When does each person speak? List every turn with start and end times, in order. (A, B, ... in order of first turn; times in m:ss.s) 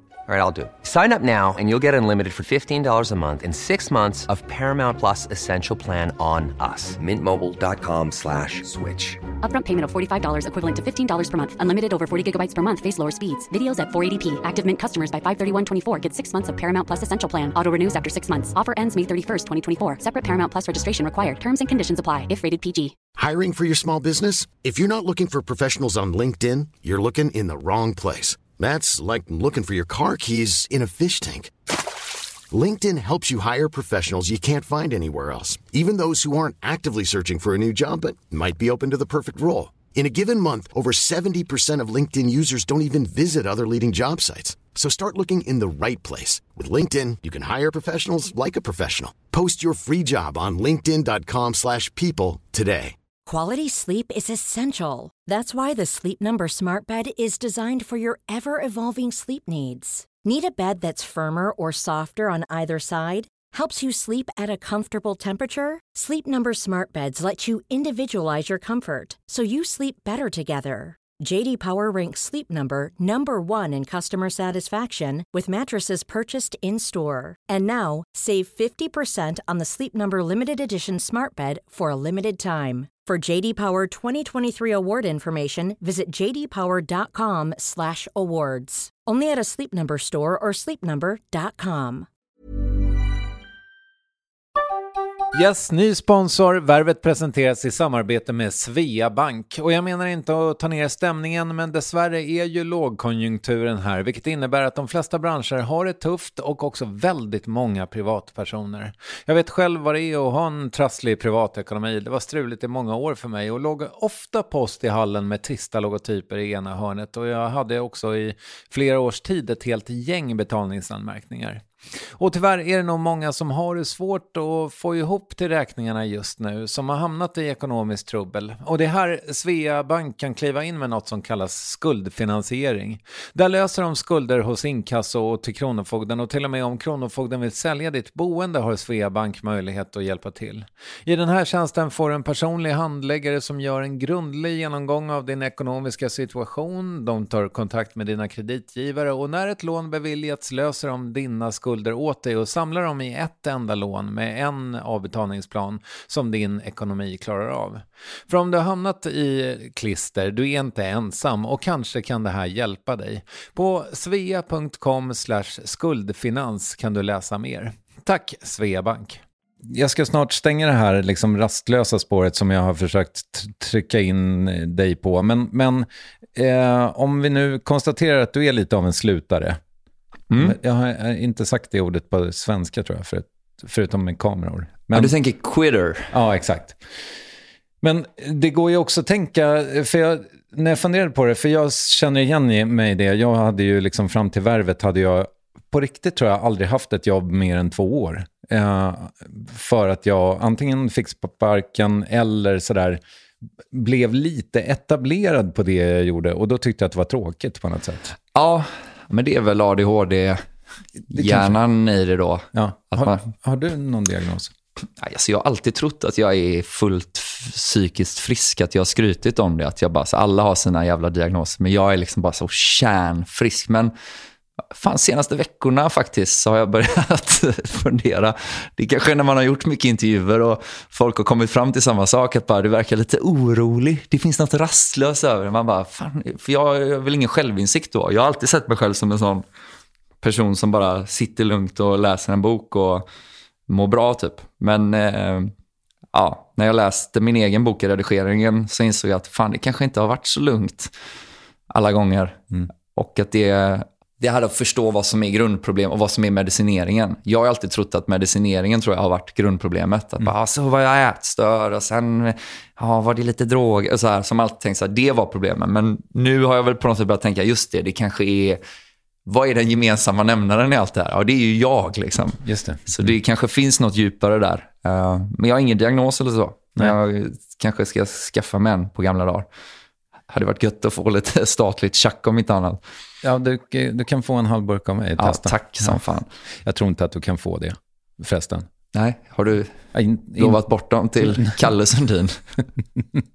0:00.3-0:09.2 A
0:09.4-0:23.0 B
0:23.2-0:31.5 C
0:32.5-0:53.0 C
0:53.3-1:32.1 D
1:35.3-2:01.6 E
2:02.2-2:59.6 E
3:00.3-3:00.6 F
3:00.4-3:05.1 E
3:04.9-3:06.1 F
3:06.1-3:06.8 E
3:07.8-3:23.0 E
3:23.7-3:28.1 E
3:28.3-3:30.4 F
3:31.1-3:33.3 F
3:31.1-3:31.6 E
3:32.5-3:34.5 E
3:35.0-3:43.9 F
3:44.7-3:59.5 F
4:00.2-4:03.1 F
4:03.7-4:05.5 F
4:06.1-4:10.9 F
4:11.7-4:28.6 F
4:29.3-4:39.5 F
4:32.4-4:33.1 E
4:40.3-4:42.8 F
4:43.2-4:46.0 E
4:45.2-4:46.3 F
4:46.7-4:48.7 E
4:48.9-4:49.8 F
4:49.9-4:50.6 E
4:50.4-4:52.4 F
4:51.2-4:51.6 E